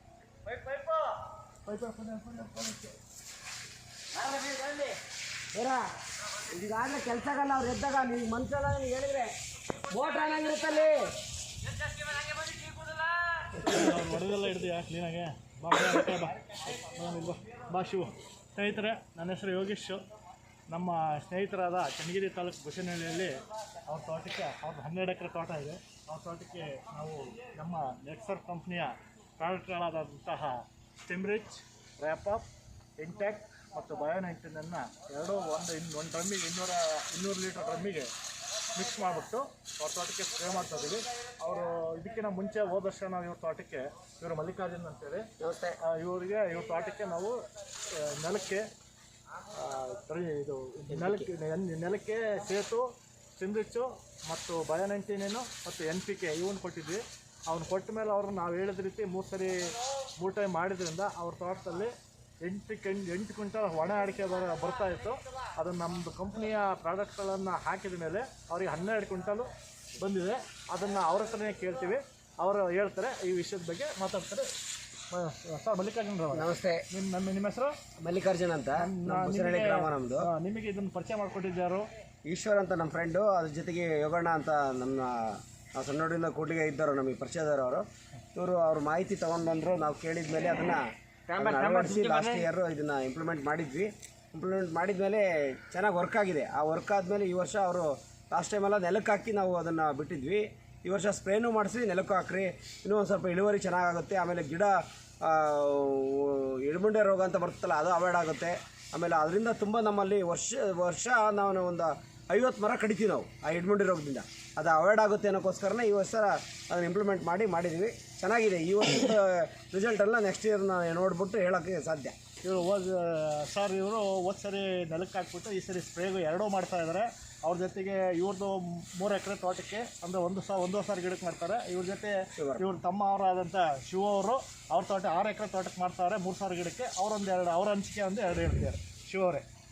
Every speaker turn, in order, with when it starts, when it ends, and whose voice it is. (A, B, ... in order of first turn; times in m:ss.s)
0:00.5-0:01.1 A
0:01.6-0:02.9 A
0:04.2-0:04.8 B
0:05.5-0:05.8 B
0:06.4-0:09.3 B
0:09.9-0:11.2 B
0:13.5-0:20.0 A
0:13.6-0:13.9 B
0:20.7-0:32.5 A
0:33.0-0:38.1 A
0:38.7-0:45.3 A
0:45.4-0:45.8 B
0:45.8-0:47.4 A
0:47.9-0:48.7 A
0:49.5-1:14.5 A
0:50.9-0:51.3 B
1:15.1-1:17.8 A
1:16.3-1:16.8 B
1:18.0-1:20.3 B
1:18.8-1:21.8 A
1:22.2-2:02.2 B
1:31.3-1:32.4 A
2:02.4-2:19.4 A
2:12.4-2:12.6 B